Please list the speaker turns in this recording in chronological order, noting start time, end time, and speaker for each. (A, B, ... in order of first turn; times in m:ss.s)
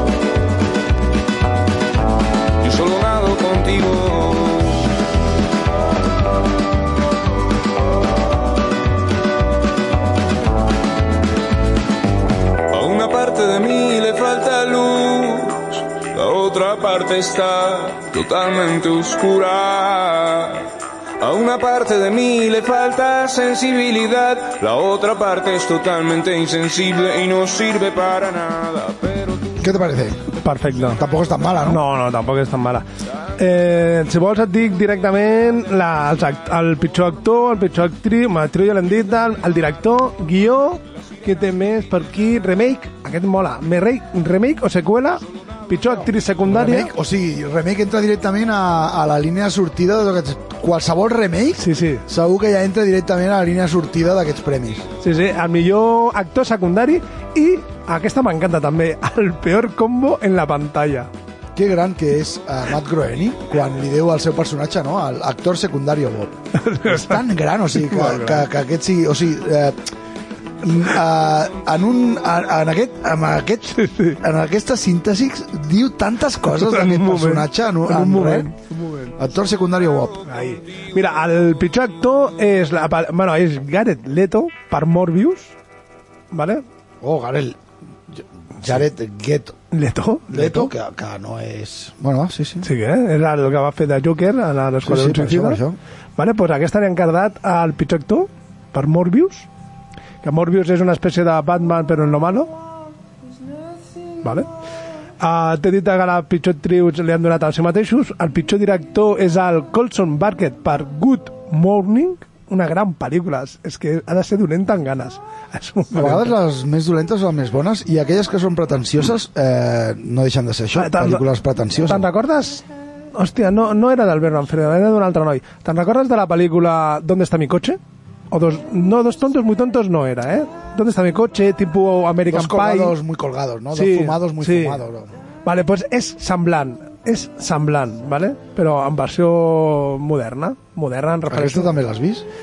0:02.6-0:04.8 A
0:12.7-0:20.7 A
0:21.2-0:29.6 A
0:29.6-0:30.2 B
0:30.4-0:31.0 C
0:31.0-0:31.8 B
0:31.6-0:32.9 C
0:33.4-0:46.9 C
0:46.4-0:54.9 B
0:51.6-0:52.0 C
0:55.0-1:01.1 C
1:01.6-1:09.9 B
1:06.5-1:07.2 C
1:07.8-1:08.5 C
1:10.6-1:18.5 B
1:13.8-1:14.2 C
1:16.5-1:19.2 C
1:19.2-1:20.2 B
1:20.3-1:25.5 C
1:26.3-1:26.6 C
1:27.0-1:27.6 B
1:28.1-1:29.6 B
1:29.7-1:30.7 C
1:30.3-1:32.7 B
1:32.6-1:35.6 C
1:34.8-1:35.8 B
1:36.2-1:39.5 C
1:40.2-1:42.5 C
1:45.2-1:56.4 C
1:55.9-2:02.1 B
2:00.8-2:01.3 C
2:01.9-2:02.6 C
2:03.2-2:07.8 C
2:08.3-2:13.0 C
2:12.3-2:15.1 B
2:13.7-2:14.8 C
2:15.4-2:21.7 C
2:21.3-2:22.2 B